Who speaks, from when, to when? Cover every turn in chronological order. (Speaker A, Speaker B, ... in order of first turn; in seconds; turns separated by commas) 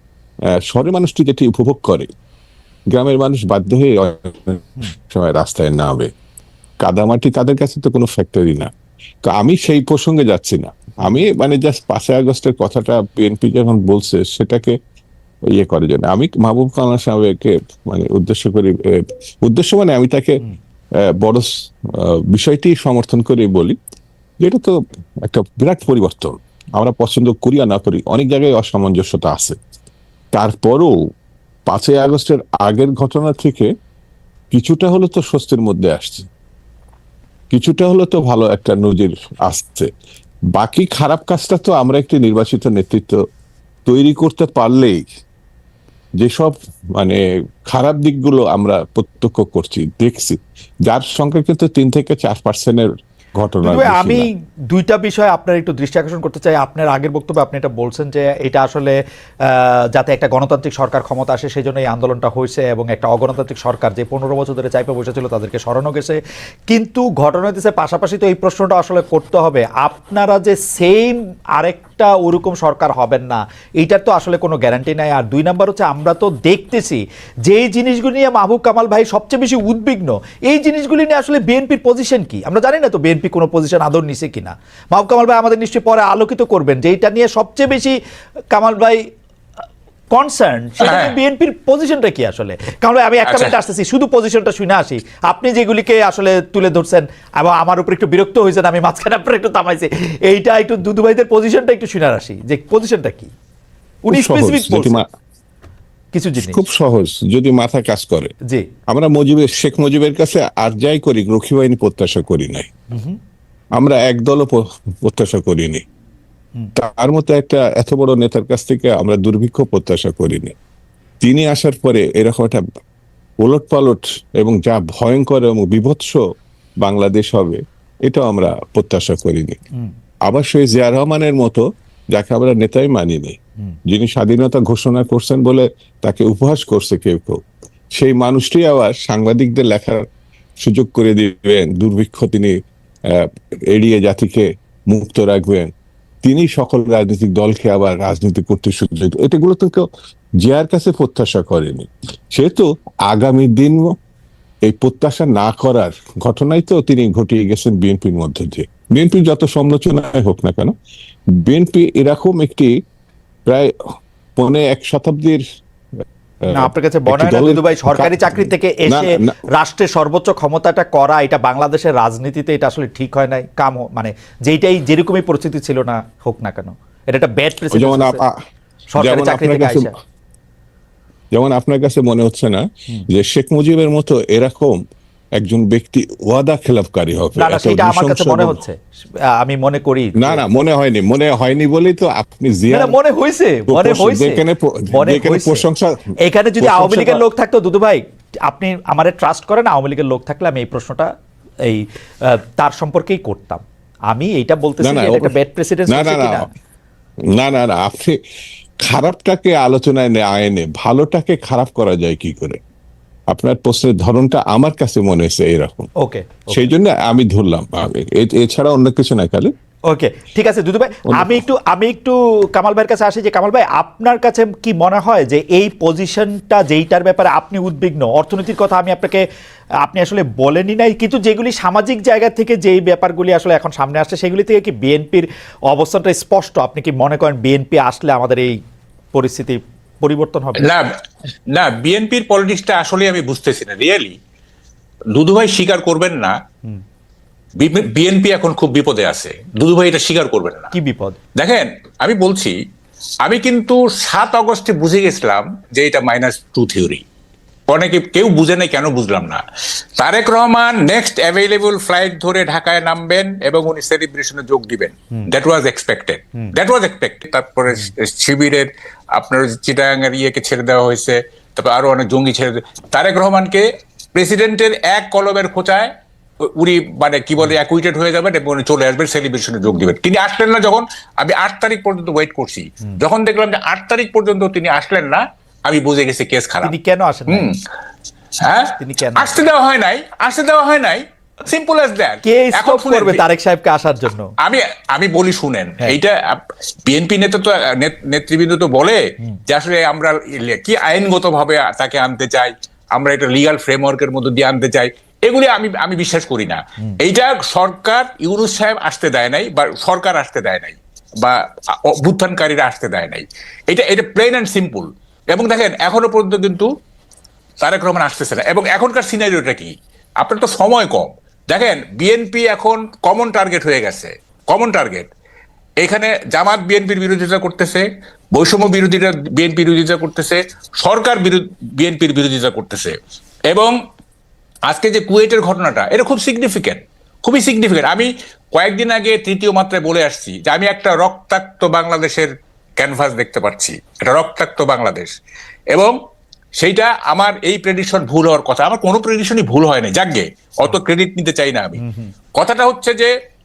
Speaker A: 0.6-2.1, Speaker A: 2.9-6.1, Speaker A: 6.8-8.7, Speaker A: 9.2-14.8, Speaker A: 15.5-20.4, Speaker A: 21.1-23.8, Speaker A: 24.4-29.6, Speaker A: 30.3-30.9, Speaker A: 31.7-33.7, Speaker A: 34.5-36.3, Speaker A: 37.5-39.9, Speaker A: 40.5-43.2, Speaker A: 43.9-45.0, Speaker A: 46.2-54.3, Speaker B: 53.6-59.0, Speaker B: 59.5-66.2, Speaker B: 66.7-88.0, Speaker B: 88.5-89.0, Speaker B: 90.1-103.3, Speaker C: 90.8-91.2, Speaker C: 93.2-93.5, Speaker B: 104.0-105.0, Speaker A: 104.1-105.0, Speaker B: 106.1-106.6, Speaker A: 106.4-108.3, Speaker A: 108.9-112.7, Speaker B: 112.9-113.2, Speaker A: 113.8-115.8, Speaker A: 116.8-120.5, Speaker A: 121.2-122.6, Speaker A: 123.4-126.2, Speaker A: 126.8-129.6, Speaker A: 130.3-137.4, Speaker A: 137.9-140.1, Speaker A: 140.6-142.6, Speaker A: 143.1-145.7, Speaker A: 146.2-149.8, Speaker A: 150.4-153.9, Speaker A: 154.7-160.7, Speaker A: 161.4-162.7, Speaker A: 163.5-163.7, Speaker A: 164.4-165.4, Speaker A: 166.4-169.3, Speaker B: 166.5-178.2, Speaker A: 177.7-178.3, Speaker B: 178.9-179.9, Speaker A: 179.0-179.9, Speaker A: 181.3-184.8, Speaker A: 185.4-188.6, Speaker B: 187.4-188.8, Speaker B: 189.3-190.5, Speaker A: 190.2-193.0, Speaker B: 192.7-194.4, Speaker A: 193.7-197.2, Speaker B: 194.9-195.7, Speaker B: 196.2-201.1, Speaker B: 201.7-206.5, Speaker A: 204.8-205.4, Speaker A: 205.9-206.4, Speaker A: 207.4-208.2, Speaker A: 208.8-212.6, Speaker A: 213.3-215.9, Speaker B: 216.0-216.7, Speaker A: 216.5-219.5, Speaker B: 219.9-229.2, Speaker A: 221.1-221.4, Speaker B: 229.8-238.5, Speaker B: 239.1-240.7, Speaker C: 240.6-240.9, Speaker C: 241.5-244.2, Speaker C: 245.2-246.3, Speaker C: 247.6-250.7, Speaker B: 250.7-251.2, Speaker C: 251.4-252.6, Speaker C: 253.2-257.0, Speaker C: 257.7-259.4, Speaker C: 260.0-273.6, Speaker C: 274.1-275.9, Speaker C: 276.4-286.7, Speaker B: 286.6-287.5, Speaker C: 287.3-287.5, Speaker C: 288.4-293.2, Speaker B: 288.8-289.4, Speaker B: 292.2-294.3, Speaker C: 294.4-311.4, Speaker C: 311.9-316.7, Speaker C: 317.6-325.1, Speaker C: 325.8-333.0, Speaker C: 333.5-333.8, Speaker C: 334.7-345.1, Speaker C: 346.6-351.8, Speaker B: 351.8-352.1, Speaker C: 352.4-353.1